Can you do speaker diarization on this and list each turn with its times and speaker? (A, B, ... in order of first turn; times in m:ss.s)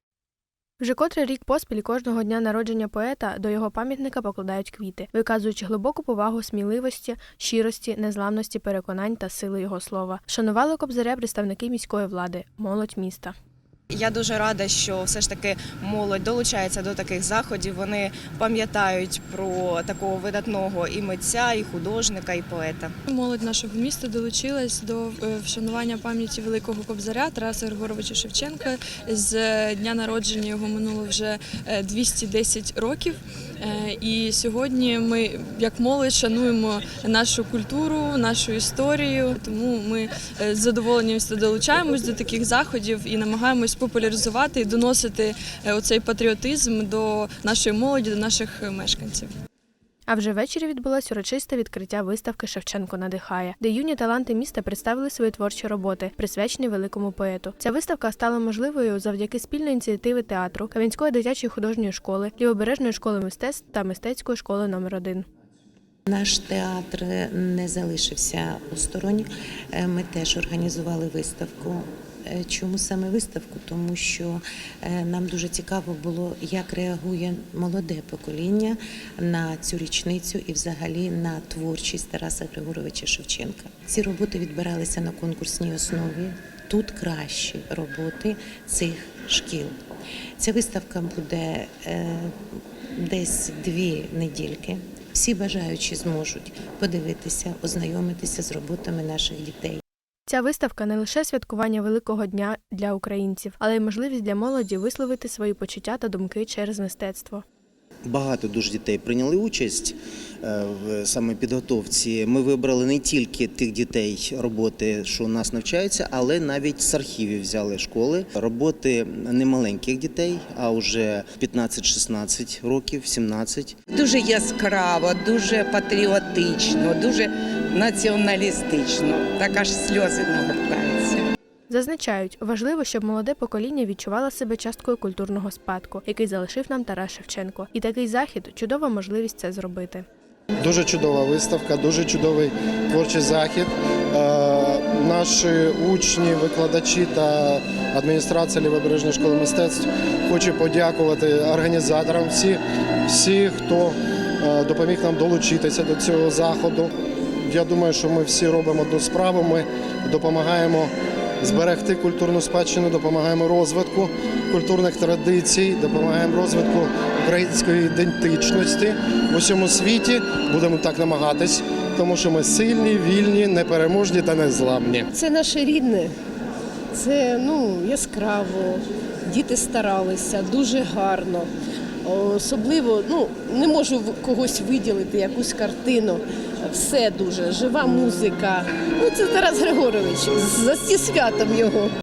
0:00.8-0:13.4 A
0:13.9-0:22.9 B
0:23.1-0:49.3 C
0:50.1-1:05.2 A
1:06.1-1:29.8 D
1:30.4-1:32.3 D
1:33.0-1:39.8 D
1:40.3-1:47.4 A
1:48.0-2:03.8 E
2:03.9-2:11.2 F
2:11.7-2:20.0 A
2:20.6-2:36.9 G
2:37.5-2:55.1 G
2:55.1-2:56.1 H
2:56.9-3:01.5 H
3:02.0-3:11.9 H